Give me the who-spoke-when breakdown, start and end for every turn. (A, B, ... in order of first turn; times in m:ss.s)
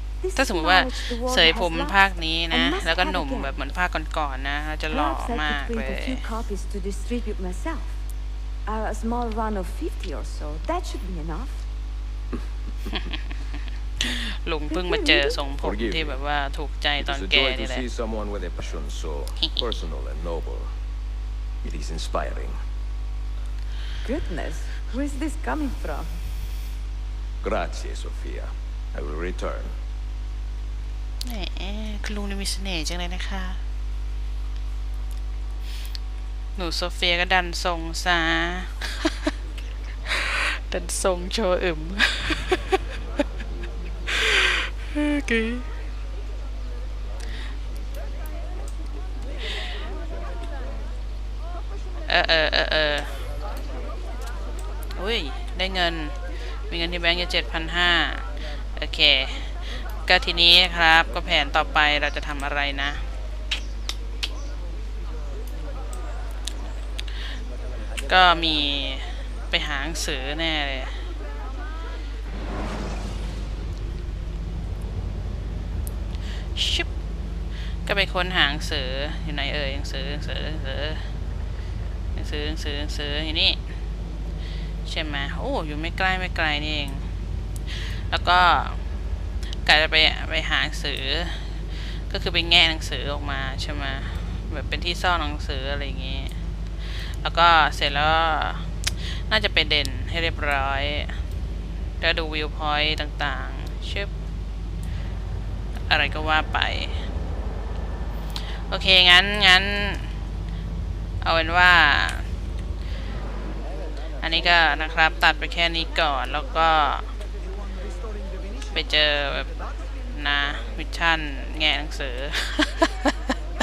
0:00.2-0:03.6 A
0:00.4-0:06.4 B
0:04.9-0:08.0 A
0:08.7-0:11.6 A
0:12.9-0:13.4 B
0:14.0-0:17.8 B
0:14.7-0:15.4 A
0:15.6-0:16.2 C
0:17.0-0:20.7 C
0:21.6-0:22.6 C
0:24.0-0:26.2 A
0:27.4-0:29.8 C
0:31.2-0:33.6 B
0:36.6-0:39.3 B
0:40.1-0:42.8 B
0:44.1-0:45.7 B
0:52.1-0:53.2 B
0:55.0-1:03.1 B
1:08.0-1:11.1 B
1:16.5-1:16.9 B
1:17.8-1:21.2 B
1:22.2-1:23.6 B
1:24.8-1:27.1 B
1:27.7-1:28.9 B
1:29.6-1:41.2 B
1:42.0-1:44.1 B
1:45.9-1:47.1 B
1:48.4-1:50.2 B
1:51.2-1:52.3 B
1:54.2-1:57.2 B
1:58.7-2:03.3 B